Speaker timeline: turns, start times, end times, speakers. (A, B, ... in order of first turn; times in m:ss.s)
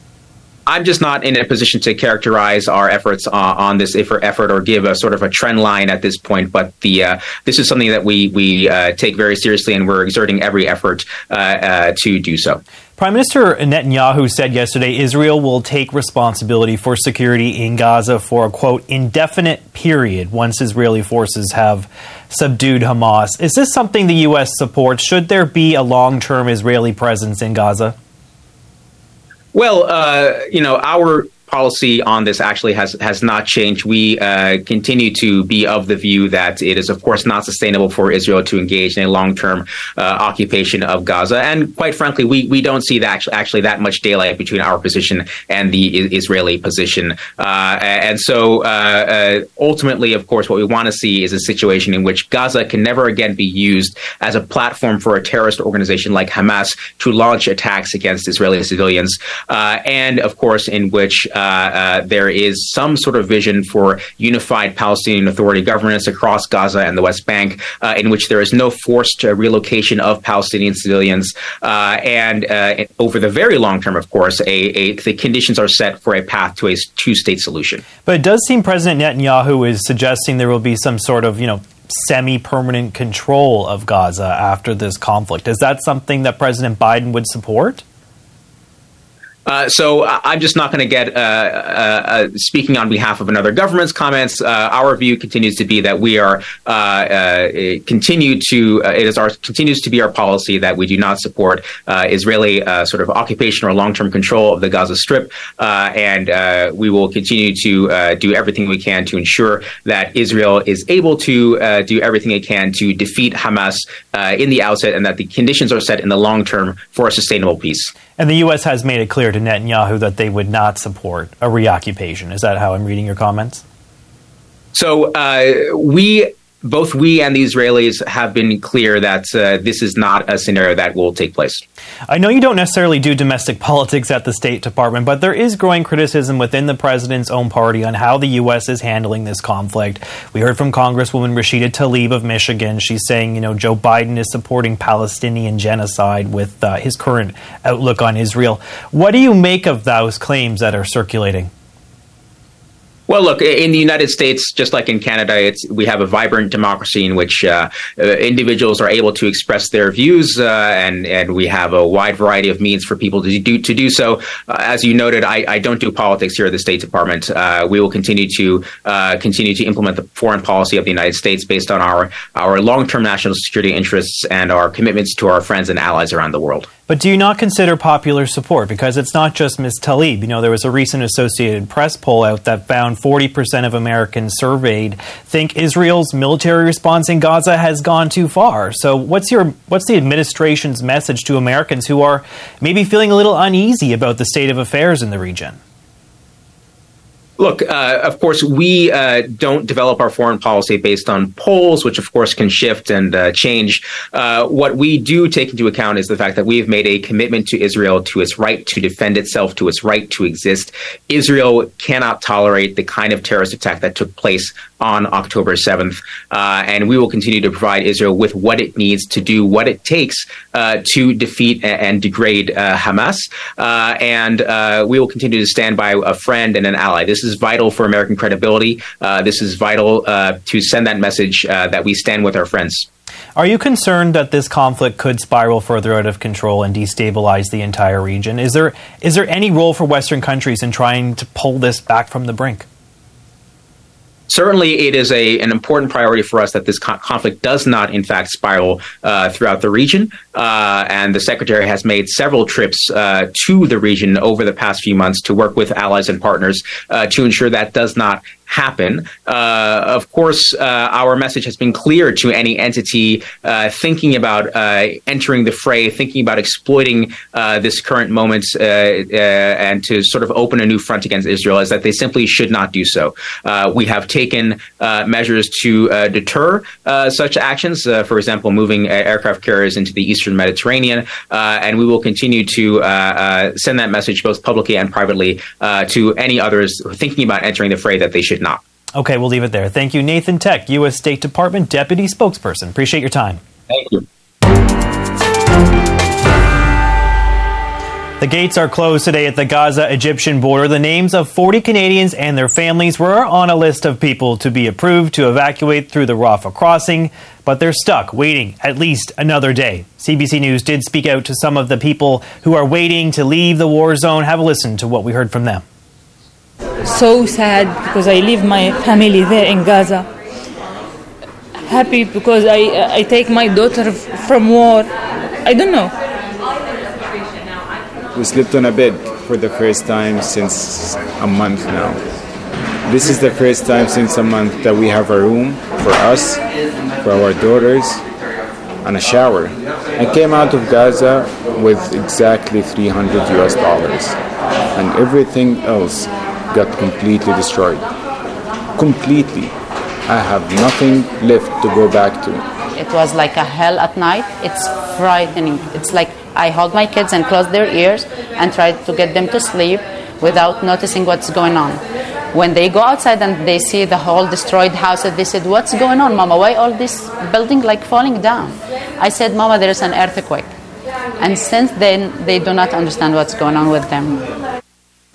0:00.7-0:12.6 A
0:13.0-0:28.0 B
0:29.5-1:17.8 A
1:18.1-1:27.8 B
1:29.5-1:57.9 A
1:58.2-2:03.6 B
2:04.7-2:11.6 A
2:12.1-2:31.5 B
2:33.1-2:56.7 A
2:56.9-3:15.6 B
3:17.4-3:52.9 A
3:53.4-4:02.7 B
4:04.3-4:48.6 A
4:49.0-4:53.4 B
4:53.7-4:54.0 A
4:58.2-5:15.6 B
5:16.9-5:20.1 C
5:21.6-5:24.9 C
5:25.4-5:25.9 C
5:28.1-5:32.0 D
5:32.9-5:36.4 D
5:37.0-5:38.0 D
5:38.8-5:44.2 D
5:44.8-5:47.9 D
5:48.8-5:49.5 D
5:50.1-5:52.5 D
5:52.8-6:01.8 E
6:02.3-6:10.5 E
6:11.2-6:14.3 E